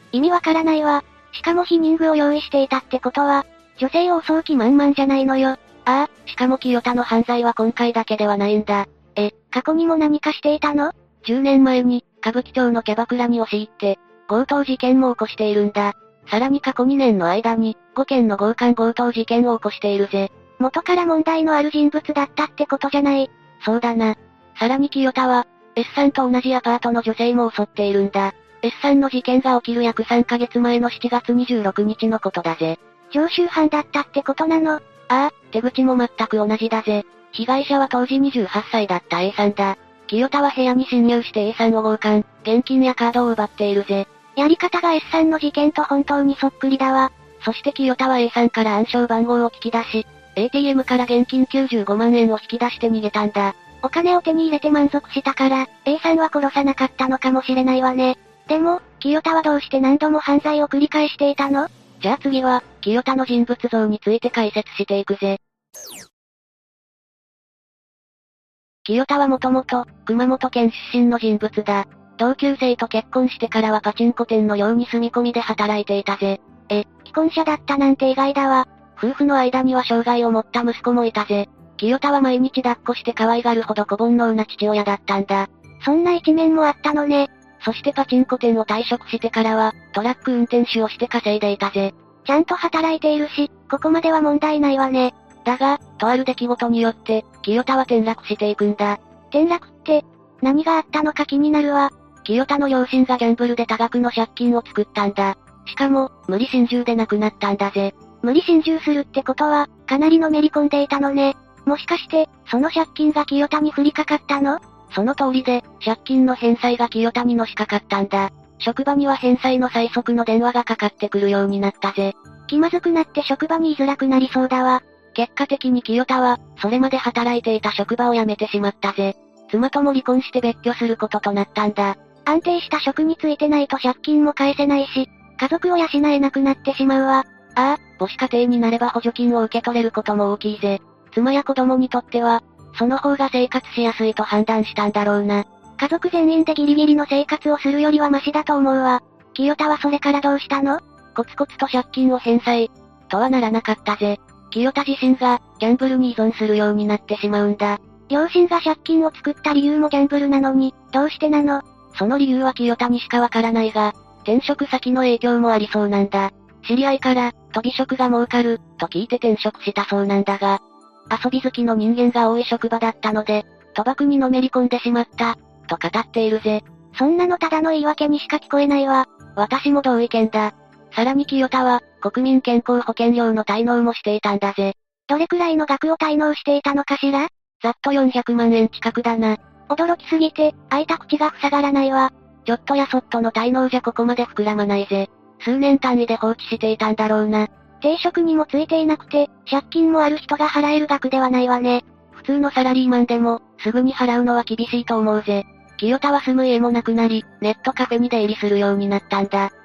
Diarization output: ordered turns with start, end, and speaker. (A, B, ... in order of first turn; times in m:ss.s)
0:00.1-0:05.7 A
0:05.8-0:09.4 B
0:09.3-0:10.9 A
0:11.2-0:20.3 B
0:20.6-0:23.4 A
0:23.6-0:32.8 B
0:33.1-0:35.1 A
0:35.1-0:44.1 B
0:44.4-0:47.3 A
0:47.4-0:53.6 B
0:53.6-1:01.7 A
1:02.0-1:05.4 B
1:08.8-1:16.8 B
1:16.8-1:18.9 A
1:19.0-1:25.5 B
1:25.8-1:27.3 A
1:27.6-1:31.9 B
1:32.2-1:35.1 A
1:35.4-1:39.0 B
1:39.3-1:41.9 A
1:42.2-1:47.9 B
1:42.4-1:42.8 A
1:48.2-1:54.8 A
1:54.9-2:02.1 B
2:02.5-2:04.8 A
2:05.1-2:12.0 B
2:12.2-2:17.3 A
2:17.6-2:25.4 B
2:25.8-2:30.8 A
2:31.1-2:37.8 B
2:38.1-2:41.6 A
2:41.9-2:56.6 B
2:56.9-2:59.2 A
2:59.3-3:04.7 B
3:05.1-3:07.3 A
3:07.6-3:09.4 B
3:09.7-3:12.1 A
3:12.4-3:17.5 B
3:17.8-3:21.9 A
3:22.1-3:29.5 B